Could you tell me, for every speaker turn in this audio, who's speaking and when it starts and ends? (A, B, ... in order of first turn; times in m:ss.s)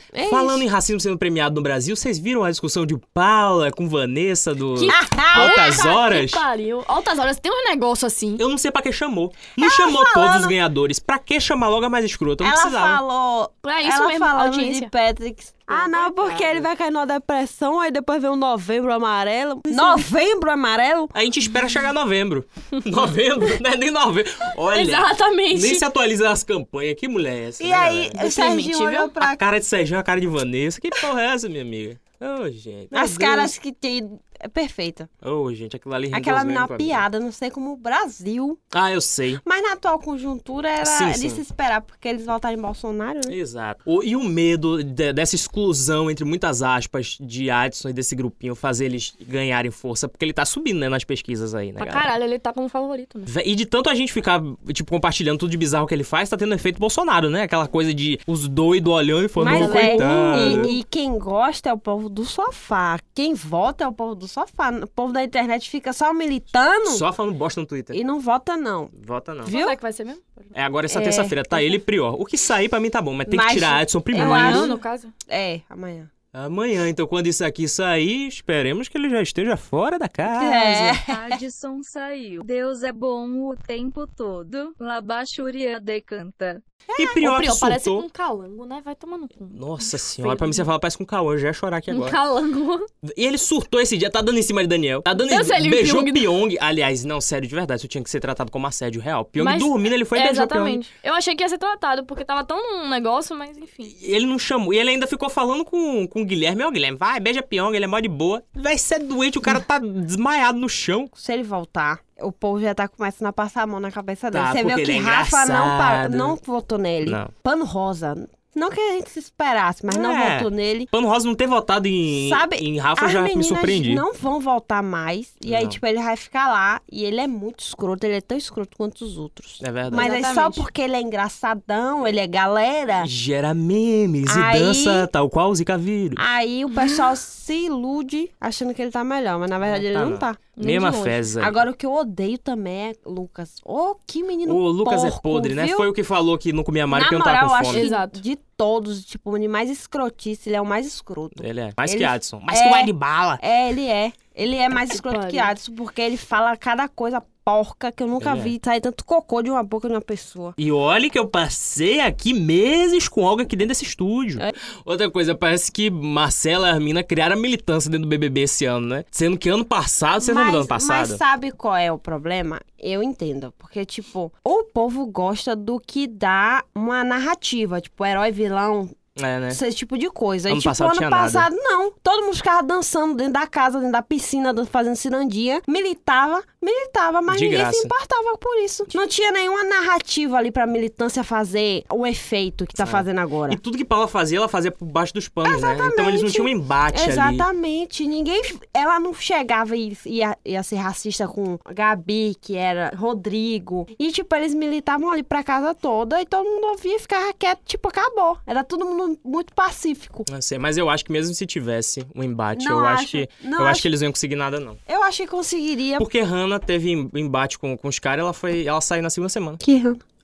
0:00.1-0:00.6 A
0:00.2-0:06.4 B
0:04.8-0:08.4 C
0:04.9-0:05.8 A
0:08.4-0:13.0 B
0:09.6-0:10.6 A
0:12.4-0:21.1 A
0:13.6-0:14.9 C
0:15.7-0:16.6 C
0:21.1-0:28.2 B
0:24.7-0:25.8 C
0:27.6-0:29.4 A
0:28.2-0:29.1 C
0:29.2-0:33.5 B
0:32.9-0:35.1 A
0:35.2-0:37.0 B
0:36.1-0:38.6 A
0:38.7-0:39.4 B
0:39.4-0:43.4 A
0:40.8-0:41.4 B
0:43.3-0:52.1 B
0:51.8-0:53.3 C
0:53.3-1:00.7 B
0:59.4-1:07.1 A
0:59.4-1:00.8 C
1:06.9-1:08.0 B
1:07.9-1:08.9 A
1:09.0-1:09.6 B
1:09.4-1:09.8 A
1:09.4-1:10.5 C
1:10.5-1:14.7 B
1:10.9-1:11.7 A
1:13.3-1:16.1 A
1:14.1-1:15.1 C
1:16.3-1:21.0 B
1:20.3-1:21.4 A
1:21.0-1:26.6 D
1:26.9-1:27.2 A
1:27.0-1:28.1 B
1:27.2-1:30.7 C
1:29.5-1:32.2 B
1:31.9-1:32.9 C
1:33.0-1:40.9 B
1:35.2-1:36.3 C
1:39.4-1:43.9 C
1:43.9-1:51.1 B
1:51.2-2:00.9 A
1:54.3-1:56.4 B
1:57.0-1:57.3 B
1:59.9-2:04.0 B
2:02.2-2:13.1 A
2:05.4-2:05.8 B
2:09.6-2:10.1 B
2:10.0-2:10.6 C
2:13.0-2:16.2 B
2:14.2-2:15.1 A
2:16.2-2:20.4 A
2:19.6-2:21.6 B
2:20.6-2:21.3 C
2:21.4-2:25.9 A
2:24.4-2:27.9 B
2:26.9-2:40.6 A
2:27.7-2:28.2 C
2:31.4-2:33.4 B
2:34.9-2:35.5 C
2:38.2-2:38.5 B
2:40.6-2:51.2 B
2:50.2-2:59.0 A
2:59.2-2:59.6 B
2:59.5-3:13.6 A
3:00.5-3:01.5 B
3:07.3-3:07.9 B
3:12.8-3:17.4 B
3:15.4-3:30.2 A
3:30.3-3:34.8 B
3:32.6-3:33.9 A
3:34.9-3:36.1 A
3:36.0-3:39.6 B
3:39.6-3:40.0 A